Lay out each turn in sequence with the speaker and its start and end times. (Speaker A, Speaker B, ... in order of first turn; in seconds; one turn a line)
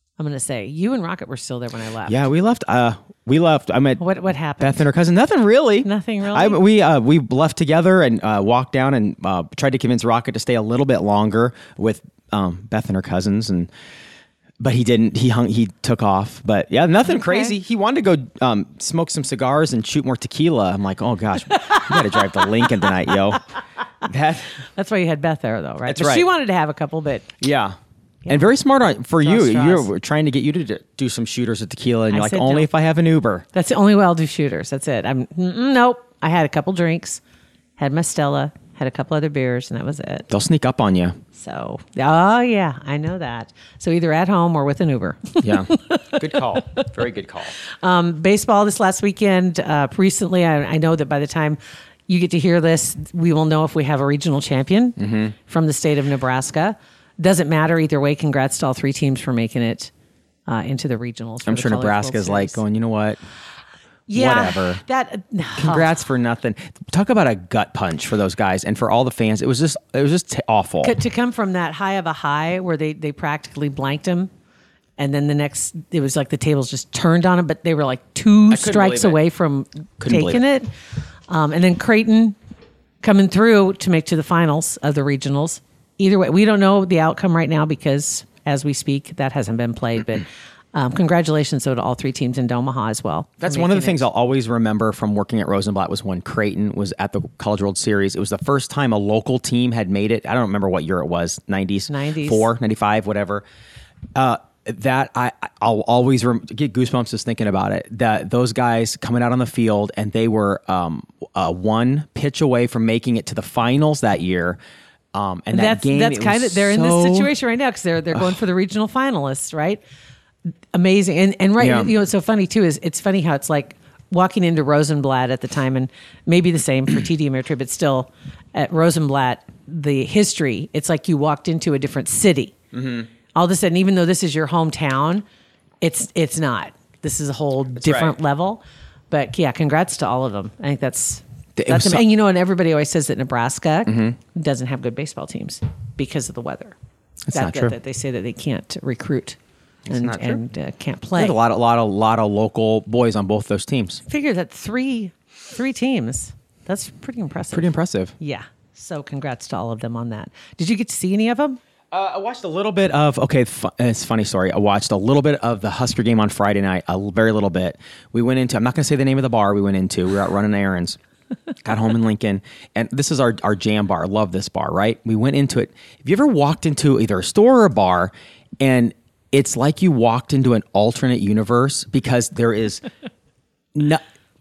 Speaker A: 0.2-2.2
Speaker B: 2.1-4.0
Speaker A: 4.0-4.9
Speaker B: 4.6-13.7
Speaker A: 5.8-6.6
Speaker B: 14.6-23.4
Speaker A: 17.1-17.6
Speaker A: 21.5-22.9
Speaker B: 24.0-24.5
Speaker A: 24.8-27.3
Speaker B: 25.9-26.3
Speaker B: 27.4-27.8
Speaker A: 28.2-28.5
Speaker B: 28.3-33.5
Speaker A: 29.2-29.9
Speaker A: 32.1-32.7
Speaker A: 33.5-37.2
Speaker A: 37.8-40.3
Speaker B: 40.3-41.2
Speaker A: 41.3-46.9
Speaker B: 45.4-47.5
Speaker A: 47.8-59.9
Speaker B: 55.0-55.3
Speaker A: 60.5-62.6
Speaker B: 61.5-63.2
Speaker A: 64.1-66.0
Speaker B: 64.2-64.8
Speaker B: 65.6-71.0
Speaker A: 70.8-74.3
Speaker A: 75.0-80.7
Speaker B: 78.5-79.2
Speaker B: 80.0-80.4
Speaker A: 81.3-82.4
Speaker A: 83.0-94.0
Speaker B: 93.4-103.4
Speaker A: 101.9-102.5
Speaker B: 104.2-114.6
Speaker B: 115.1-117.3
Speaker A: 115.5-119.8
Speaker A: 120.7-132.6
Speaker B: 121.6-121.9
Speaker B: 132.7-133.1
Speaker A: 133.3-135.2
Speaker A: 135.8-146.8
Speaker B: 137.8-138.2
Speaker B: 141.6-142.0
Speaker B: 143.9-144.2
Speaker B: 147.3-147.8
Speaker A: 147.3-149.4
Speaker B: 149.9-150.4
Speaker A: 149.9-151.4
Speaker B: 151.2-154.0
Speaker A: 154.1-161.6
Speaker B: 157.5-158.2
Speaker B: 161.9-171.0
Speaker B: 171.6-182.8
Speaker B: 183.7-184.0